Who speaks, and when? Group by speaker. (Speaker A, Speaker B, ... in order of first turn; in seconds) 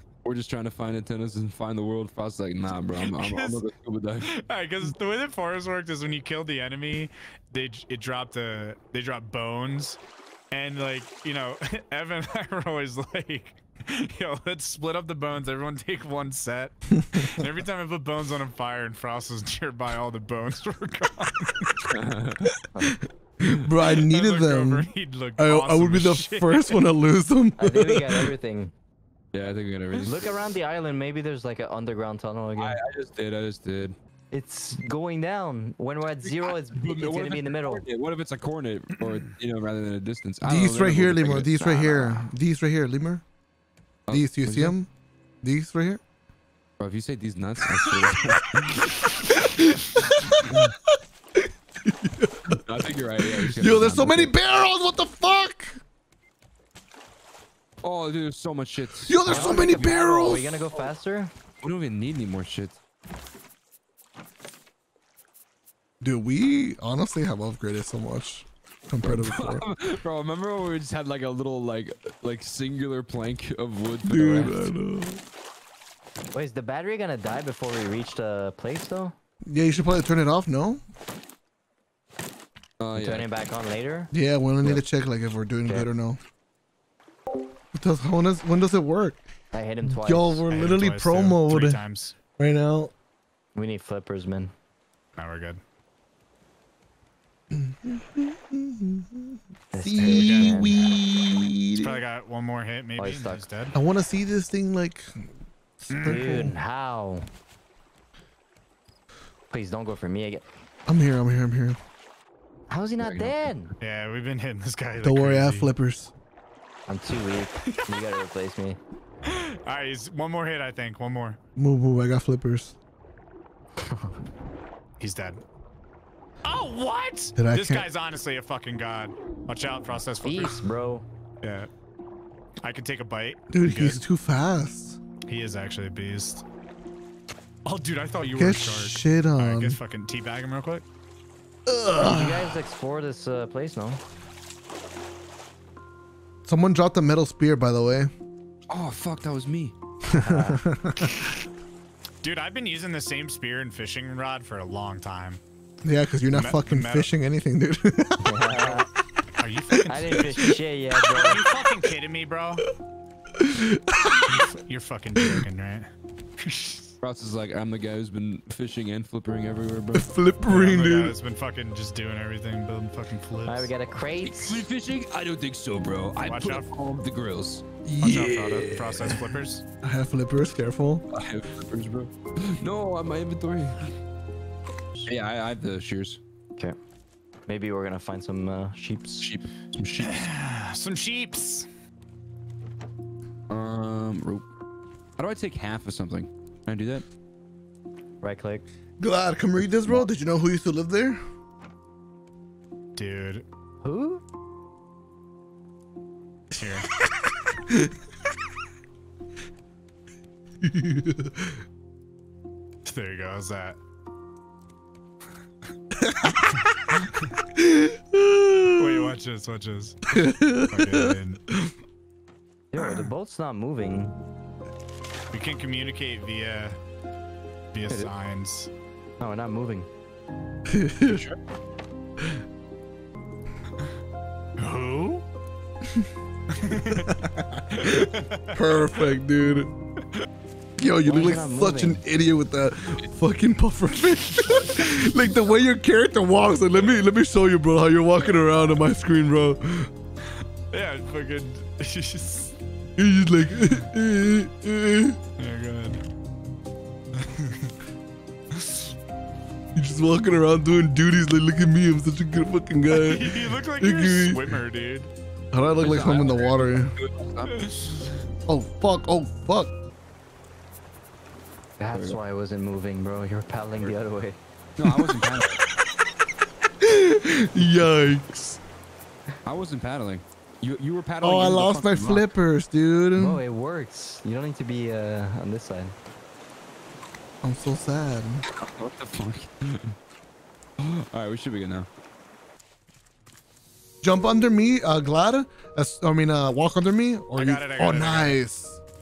Speaker A: 0.2-4.3, 21.9-22.6, 29.3-30.3, 32.6-34.0, 36.2-41.5, 44.1-44.7, 46.8-49.1, 52.5-54.3, 57.8-59.9, 61.6-62.8, 69.0-74.7, 82.8-83.3, 113.0-113.5, 148.7-149.7, 167.0-170.1, 174.2-177.6, 181.1-183.9, 185.1-186.2, 189.2-190.3, 193.5-194.4, 195.2-197.0, 231.0-231.4, 265.8-267.7, 271.9-272.2, 274.8-275.6, 279.4-282.3, 288.5-290.0, 290.8-291.9
Speaker B: 2.8-3.6, 4.2-10.0, 10.5-21.9, 23.9-26.9, 90.5-92.2, 95.2-95.6, 100.0-100.8, 101.7-103.8, 105.9-106.2, 113.8-115.7, 117.6-118.0, 119.2-121.4, 125.0-125.4, 126.4-130.6, 131.4-131.7, 132.6-134.0, 135.3-136.4, 137.6-140.8, 152.2-155.4, 156.3-157.1, 159.4-162.7, 164.2-166.9, 170.5-173.7, 176.2-176.7, 178.0-179.6, 190.0-191.7, 202.9-203.4, 206.5-206.9, 212.8-213.8, 216.5-217.3, 218.7-221.4, 225.3-226.8, 227.7-228.7, 234.6-235.2, 236.5-237.2, 237.8-238.6, 250.7-252.5, 255.4-256.0, 257.1-257.7, 258.5-258.9, 262.9-265.1, 267.5-268.1, 297.3-298.4
Speaker C: 16.9-17.3, 23.4-28.3, 40.4-43.2, 44.1-44.9, 45.4-46.0, 47.7-48.6, 49.3-55.8, 59.0-60.6, 66.0-69.7, 74.0-75.2, 79.5-80.8, 84.1-86.2, 87.7-89.2, 89.8-91.8, 92.4-92.9, 97.5-102.0, 103.7-105.3, 105.8-106.6, 110.9-111.8, 115.0-116.1, 121.5-122.7, 127.3-127.9, 133.5-135.0, 138.3-139.8, 141.7-142.6, 146.4-148.1, 150.1-151.2, 155.8-158.6, 163.3-164.5, 165.2-165.4, 169.9-171.2, 177.8-181.1, 199.0-201.2, 207.0-207.9, 210.6-211.6, 215.9-216.6, 217.5-219.1, 220.1-221.7, 230.7-231.2, 236.9-239.7, 240.8-249.9, 253.0-255.2, 259.7-264.6, 265.5-266.9, 268.5-269.7, 274.9-275.2, 276.8-278.6, 281.2-283.4, 287.4-288.4, 294.0-298.8
Speaker D: 27.6-28.7, 30.0-32.8, 34.3-37.8, 41.5-42.3, 59.2-61.3, 76.3-79.1, 82.9-84.1, 89.5-90.4, 93.5-94.5, 99.7-100.9, 103.0-103.4, 106.0-107.3, 109.5-110.4, 112.7-113.7, 116.9-118.8, 123.8-124.1, 130.2-131.0, 142.0-144.0, 150.2-150.6, 158.2-158.9, 159.9-161.4, 173.4-174.6, 187.5-189.3, 198.2-198.6, 203.8-204.2, 222.7-224.2, 229.2-229.9, 241.0-242.0, 271.8-274.4, 283.2-285.9